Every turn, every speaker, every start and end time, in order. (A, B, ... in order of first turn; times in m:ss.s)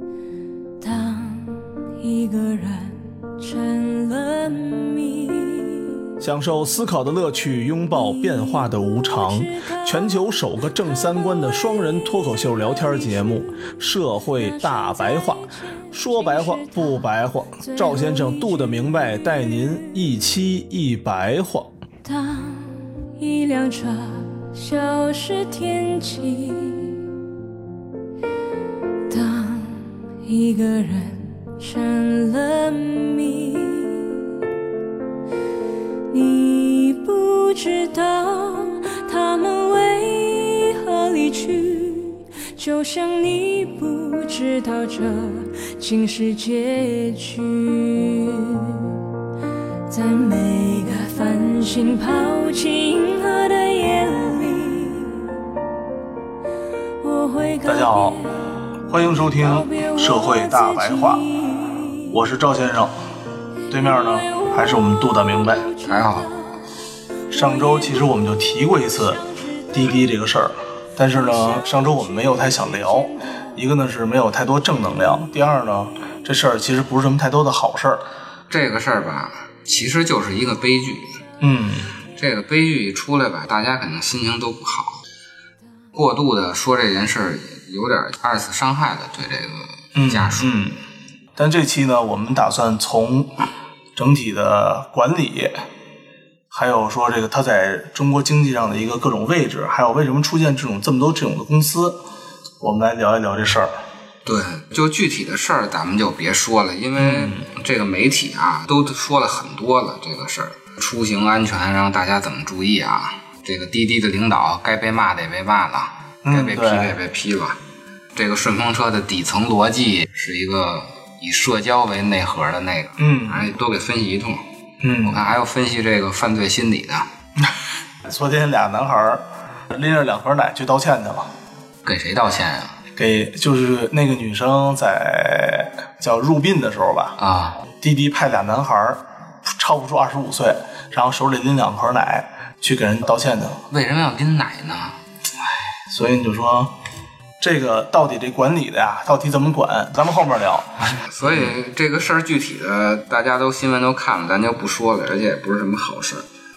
0:00.8-0:06.0 A
0:06.2-0:21.7 B
0:09.4-0:10.0 A
0:10.8-0:12.0 A
0:12.5-0:13.4 A
0:14.2-0:19.7 A
0:22.0-0:27.1 A
0:29.1-0:34.3 A
0:36.1-0:49.0 A
0:49.9-0:55.4 A
0:57.0-0:58.4 A
0:57.6-0:58.2 B
0:58.9-1:01.3 B
0:59.4-1:02.2 A
1:02.1-1:03.0 B
1:03.7-1:05.7 B
1:03.7-1:06.5 A
1:05.8-1:06.3 C
1:07.3-1:18.0 B
1:07.3-1:08.0 A
1:09.2-1:09.8 A
1:11.2-1:13.2 A
1:18.5-1:21.2 C
1:21.4-1:21.9 B
1:22.2-1:25.0 C
1:25.9-1:30.6 C
1:30.0-1:30.8 B
1:31.4-1:33.3 B
1:34.0-1:35.6 B
1:36.5-1:42.0 B
1:42.6-1:43.7 B
1:44.2-1:57.6 C
1:47.0-1:47.5 B
1:56.2-1:57.0 B
1:58.2-2:04.4 C
2:03.0-2:03.5 B
2:04.8-2:05.2 B
2:05.0-2:07.1 C
2:07.4-2:11.3 B
2:11.8-2:12.8 C
2:13.0-2:23.6 B
2:17.2-2:17.6 C
2:23.7-2:25.0 C
2:25.9-2:26.7 B
2:27.4-2:31.5 B
2:31.0-2:36.3 C